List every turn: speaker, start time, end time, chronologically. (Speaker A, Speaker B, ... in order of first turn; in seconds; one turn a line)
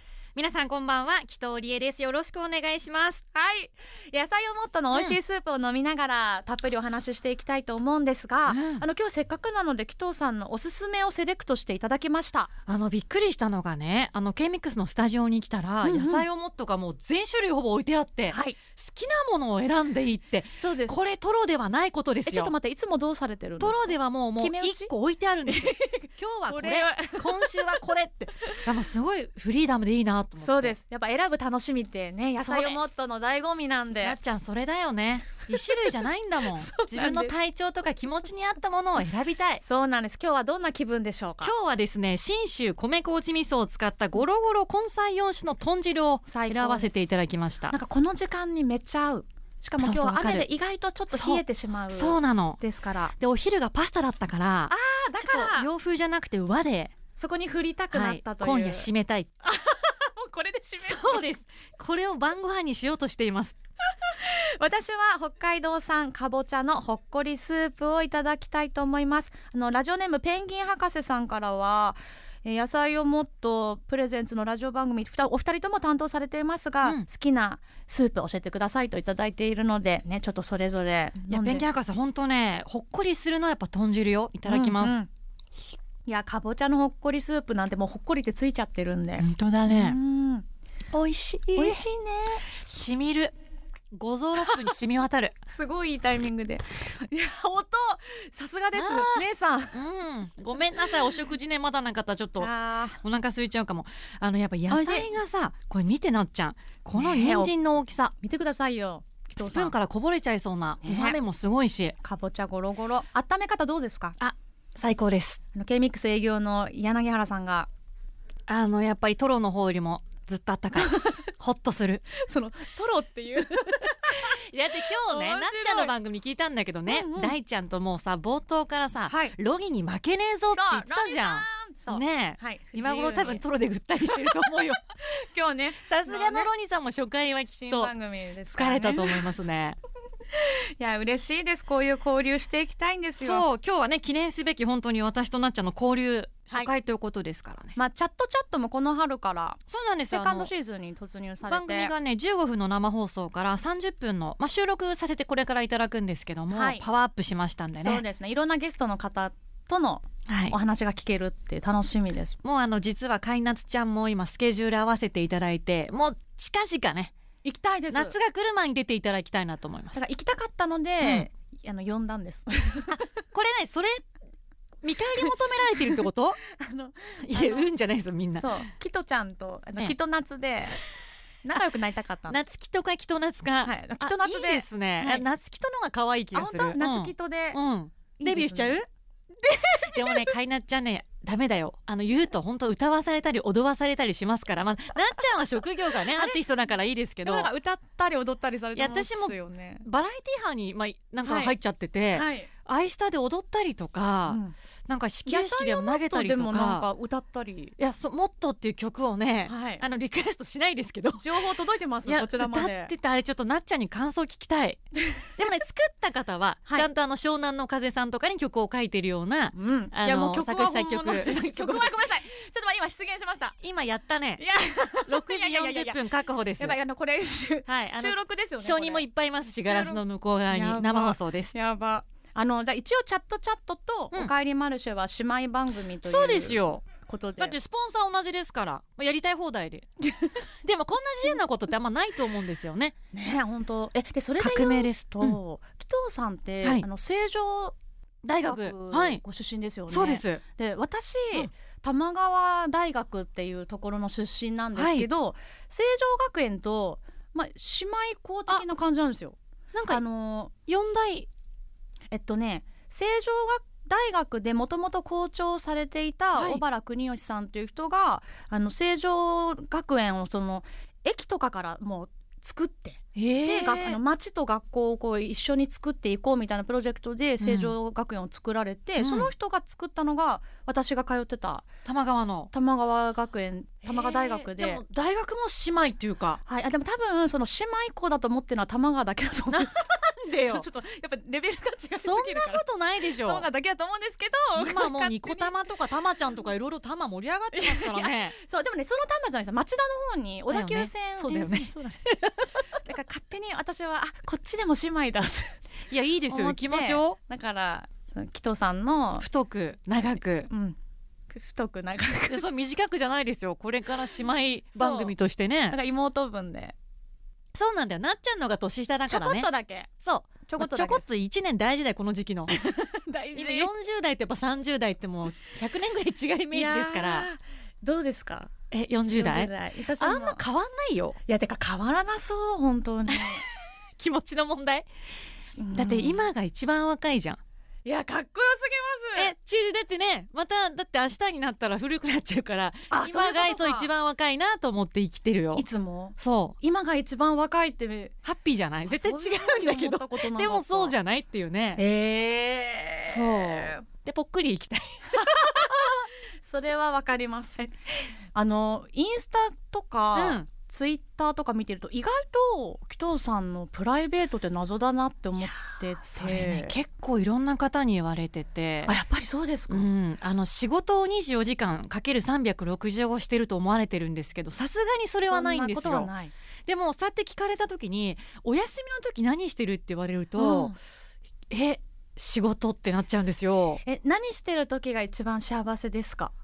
Speaker A: 0.3-3.2
Speaker B: 3.3-12.5
Speaker A: 4.9-5.2
Speaker A: 8.5-8.8
Speaker A: 12.7-22.5
Speaker B: 15.8-16.2
Speaker B: 18.3-18.6
Speaker B: 20.6-20.9
Speaker B: 22.2-24.9
Speaker A: 23.6-30.7
Speaker B: 25.4-27.6
Speaker B: 30.4-34.2
Speaker A: 32.4-32.8
Speaker A: 34.0-39.6
Speaker B: 36.6-37.3
Speaker B: 39.6-41.5
Speaker A: 41.4-47.8
Speaker B: 46.2-47.0
Speaker B: 47.7-53.1
Speaker A: 49.8-50.5
Speaker A: 51.1-52.6
Speaker A: 53.2-56.9
Speaker B: 54.7-55.7
Speaker B: 57.1-58.9
Speaker A: 57.9-59.3
Speaker B: 59.4-61.2
Speaker A: 60.8-63.5
Speaker B: 64.1-81.7
Speaker A: 81.3-85.0
Speaker B: 84.5-85.1
Speaker B: 86.0-90.4
Speaker A: 89.2-90.0
Speaker A: 90.9-91.8
Speaker B: 91.5-92.4
Speaker A: 92.6-93.3
Speaker A: 93.9-95.3
Speaker B: 95.5-99.8
Speaker A: 98.7-102.5
Speaker B: 102.4-103.0
Speaker A: 103.0-108.1
Speaker B: 104.7-105.1
Speaker B: 107.0-107.5
Speaker B: 108.2-109.7
Speaker A: 109.4-112.0
Speaker B: 110.8-111.2
Speaker B: 112.0-114.2
Speaker A: 114.2-115.4
Speaker B: 115.5-117.7
Speaker A: 118.5-122.0
Speaker B: 120.8-121.3
Speaker B: 122.2-125.9
Speaker A: 124.1-134.8
Speaker B: 126.9-127.3
Speaker B: 129.1-129.3
Speaker B: 130.5-133.4
Speaker B: 135.1-136.5
Speaker A: 135.8-137.9
Speaker B: 137.5-139.3
Speaker A: 138.5-139.8
Speaker B: 140.3-143.4
Speaker A: 143.2-147.8
Speaker B: 147.7-151.9
Speaker A: 149.7-150.5
Speaker A: 151.5-158.0
Speaker B: 156.5-156.8
Speaker B: 157.8-162.4
Speaker A: 160.3-160.6
Speaker A: 162.4-167.1
Speaker B: 167.4-168.2
Speaker A: 167.9-170.0
Speaker B: 169.9-173.0
Speaker A: 171.0-171.3
Speaker A: 172.9-174.0
Speaker A: 174.8-176.4
Speaker B: 176.5-177.7
Speaker A: 177.2-178.5
Speaker B: 178.4-180.8
Speaker B: 181.4-182.4
Speaker A: 182.3-188.8
Speaker B: 183.6-185.2
Speaker B: 186.3-187.6
Speaker B: 188.2-188.8
Speaker B: 189.4-190.3
Speaker A: 189.9-197.5
Speaker B: 196.1-196.4
Speaker B: 197.2-199.8
Speaker A: 198.7-206.9
Speaker B: 201.2-201.5
Speaker B: 202.1-202.5
Speaker B: 204.3-204.5
Speaker B: 205.2-207.7
Speaker A: 207.8-211.4
Speaker B: 209.5-209.8
Speaker B: 211.2-212.9
Speaker A: 212.1-214.8
Speaker A: 215.4-222.0
Speaker B: 219.5-223.6
Speaker A: 223.6-224.4
Speaker B: 224.4-226.0
Speaker A: 225.1-226.8
Speaker B: 226.6-237.6
Speaker A: 227.7-231.5
Speaker A: 236.0-236.8
Speaker A: 237.4-239.8
Speaker A: 240.6-242.9
Speaker B: 243.1-247.7
Speaker A: 244.4-245.4
Speaker A: 248.2-249.2
Speaker B: 248.4-259.4
Speaker A: 249.9-250.4
Speaker A: 254.7-255.1
Speaker A: 259.7-260.0
Speaker B: 259.9-260.5
Speaker A: 260.7-261.3
Speaker B: 262.1-281.7
Speaker A: 266.3-266.6
Speaker A: 273.1-274.0
Speaker A: 277.4-277.7
Speaker A: 279.0-279.3
Speaker A: 281.8-282.5
Speaker B: 282.5-284.8
Speaker A: 283.8-286.4
Speaker B: 286.4-295.5
Speaker A: 289.5-290.6
Speaker A: 292.0-293.4
Speaker A: 294.6-298.3
Speaker B: 297.5-302.0
Speaker A: 300.5-302.4
Speaker B: 302.8-305.6
Speaker A: 305.9-307.2
Speaker B: 306.3-309.2
Speaker A: 309.2-310.5
Speaker B: 310.5-310.8
Speaker B: 311.3-312.4
Speaker A: 312.3-315.8
Speaker B: 314.8-315.1
Speaker B: 315.7-316.7
Speaker A: 317.5-319.5
Speaker B: 319.1-319.9
Speaker A: 320.0-322.5
Speaker B: 320.4-321.0
Speaker B: 322.5-323.7
Speaker A: 323.3-327.3
Speaker B: 326.5-328.5
Speaker A: 328.7-331.2
Speaker B: 329.1-330.4
Speaker B: 331.3-333.4
Speaker A: 334.0-334.9
Speaker B: 335.6-336.3
Speaker A: 335.7-337.4
Speaker B: 337.8-339.3
Speaker A: 339.1-345.6
Speaker B: 342.9-343.9
Speaker B: 345.6-348.1
Speaker A: 346.2-346.6
Speaker A: 348.2-351.8
Speaker B: 348.8-350.9
Speaker B: 351.8-353.8
Speaker A: 353.0-355.9
Speaker B: 355.1-357.6
Speaker B: 358.3-366.7
Speaker A: 360.1-360.5
Speaker A: 366.0-368.9
Speaker B: 368.9-369.9
Speaker A: 369.7-376.1
Speaker B: 375.3-376.3
Speaker A: 376.6-380.7
Speaker B: 380.4-380.8
Speaker A: 381.5-383.8
Speaker B: 383.8-386.3